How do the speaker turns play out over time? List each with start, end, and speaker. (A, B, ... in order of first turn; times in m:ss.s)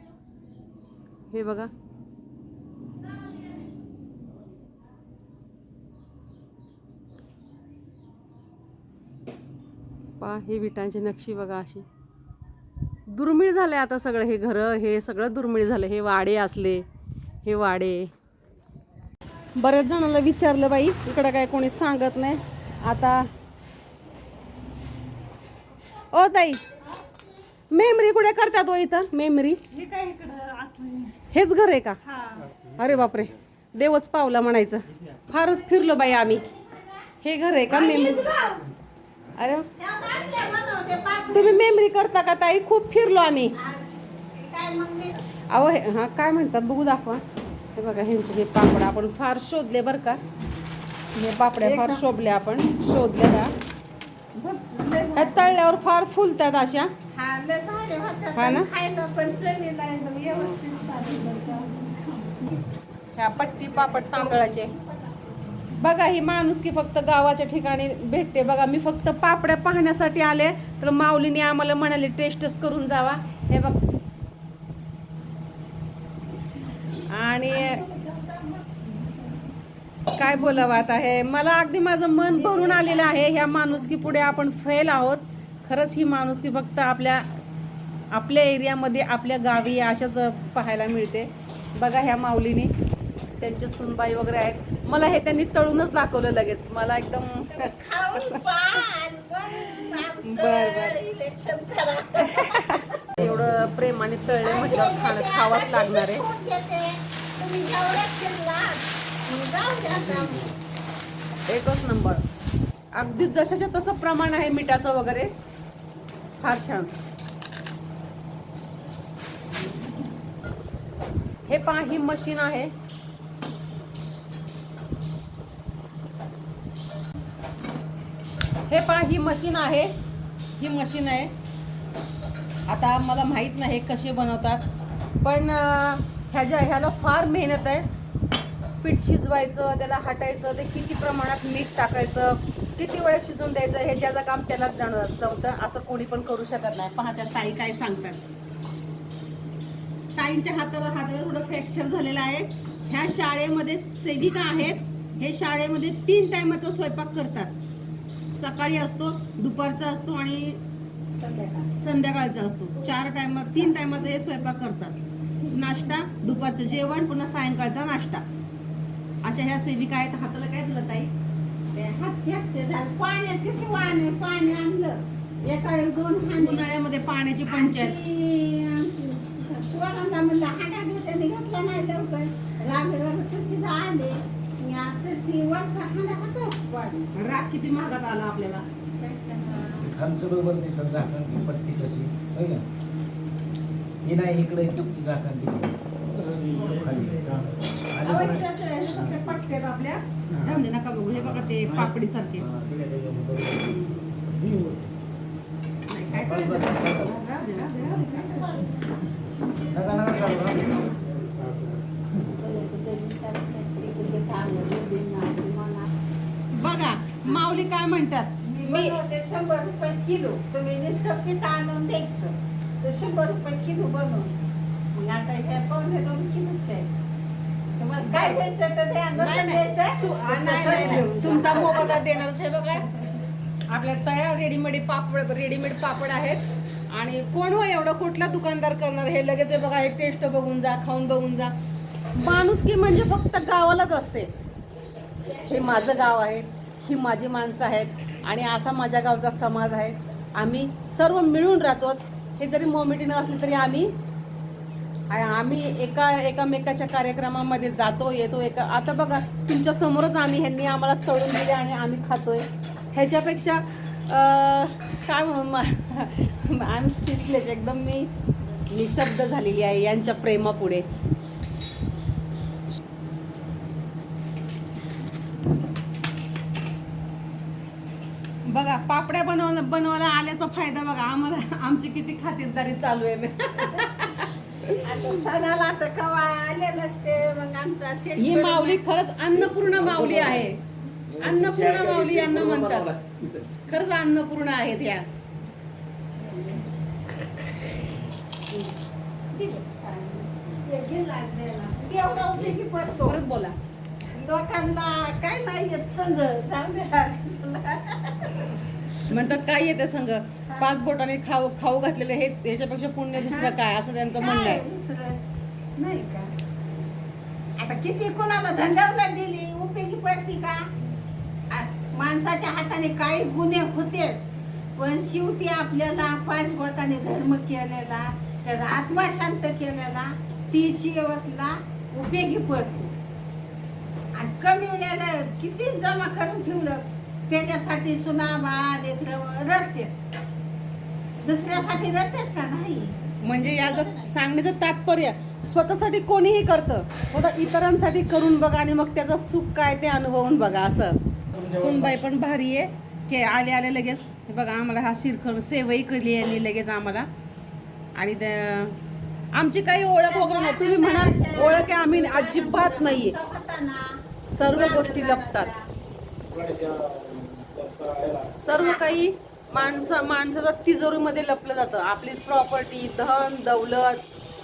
0:01.3-0:01.7 A
0:10.2-0:11.8 A
0:13.1-0:16.8 A
0:17.4-0:18.1 A
0:19.6-0:23.3 A
0:26.1-0:26.6 A
0:27.7-0:29.7 A
0:29.8-0:31.2 B
0:31.2-0:32.0 A
0:32.2-0:32.4 B
0:32.6-0:36.4 A
0:36.5-0:36.8 B
0:37.2-0:38.3 A
0:37.7-0:38.7 B
0:39.4-0:39.7 A
0:39.8-0:41.7 B
0:41.3-0:43.6 A
0:43.5-0:45.2 B
0:45.5-0:47.2 A
0:47.7-0:50.2 A
0:51.1-0:53.5 A
0:51.6-0:52.0 B
0:54.4-0:55.6 B
0:55.2-0:56.9 A
0:57.1-1:02.6 B
0:58.3-0:58.7 A
1:00.3-1:00.6 A
1:03.2-1:04.7 A
1:03.3-1:05.7 B
1:05.8-1:13.8 A
1:17.1-1:17.8 A
1:17.5-1:19.3 B
1:20.1-1:27.2 A
1:22.4-1:23.4 B
1:28.1-1:32.7 A
1:33.4-1:38.4 A
1:37.5-1:42.8 B
1:39.6-1:41.0 A
1:42.2-1:46.2 A
1:44.4-1:50.5 B
1:51.4-1:52.2 A
1:52.9-1:55.3 A
1:56.4-1:56.9 A
2:01.5-2:02.7 A
2:08.7-2:09.9 A
2:10.6-2:11.3 A
2:12.7-2:14.6 A
2:15.2-2:17.9 A
2:18.8-2:28.2 A
2:30.2-2:37.5 A
2:38.3-2:40.6 A
2:41.1-2:41.7 B
2:41.8-2:45.0 A
2:45.5-2:48.2 A
2:49.2-2:51.1 A
2:51.7-2:56.7 B
2:56.4-2:58.0 A
2:57.5-3:07.0 B
3:07.1-3:08.6 A
3:09.0-3:09.9 B
3:09.8-3:12.6 C
3:14.0-3:19.4 C
3:18.0-3:22.5 A
3:21.1-3:24.9 C
3:25.9-3:28.7 A
3:26.1-3:27.2 C
3:27.8-3:29.1 B
3:29.7-3:31.8 C
3:32.3-3:35.9 B
3:36.5-3:39.0 A
3:38.5-3:44.3 B
3:44.9-3:46.9 B
3:47.8-3:52.2 B
3:48.1-3:48.4 A
3:49.2-3:52.8 A
3:52.7-3:53.2 B
3:53.7-4:01.5 A
4:02.1-4:04.3 A
4:05.4-4:13.9 A
4:15.1-4:28.1 A
4:28.7-4:30.8 A
4:38.4-4:44.8 A
4:44.7-4:49.8 B
4:48.2-4:50.6 A
4:49.9-4:50.4 C
4:51.2-4:53.0 A
4:51.3-4:53.3 C
4:53.6-4:55.0 A
4:56.2-4:56.7 B
4:59.3-5:03.2 B
5:03.0-5:03.6 A
5:04.1-5:08.6 B
5:09.1-5:14.6 A
5:13.2-5:13.6 B
5:14.2-5:15.2 B
5:15.8-5:16.3 B
5:17.6-5:20.7 B
5:21.5-5:24.2 B
5:24.8-5:32.9 B
5:34.1-5:39.9 B
5:41.2-5:43.0 B
5:43.2-5:57.1 A
5:58.0-5:58.8 A
5:59.3-6:03.2 A
6:00.1-6:04.0 B
6:04.3-6:05.5 A
6:04.5-6:05.7 B
6:06.3-6:08.4 C
6:08.4-6:14.0 A
6:08.5-6:08.9 B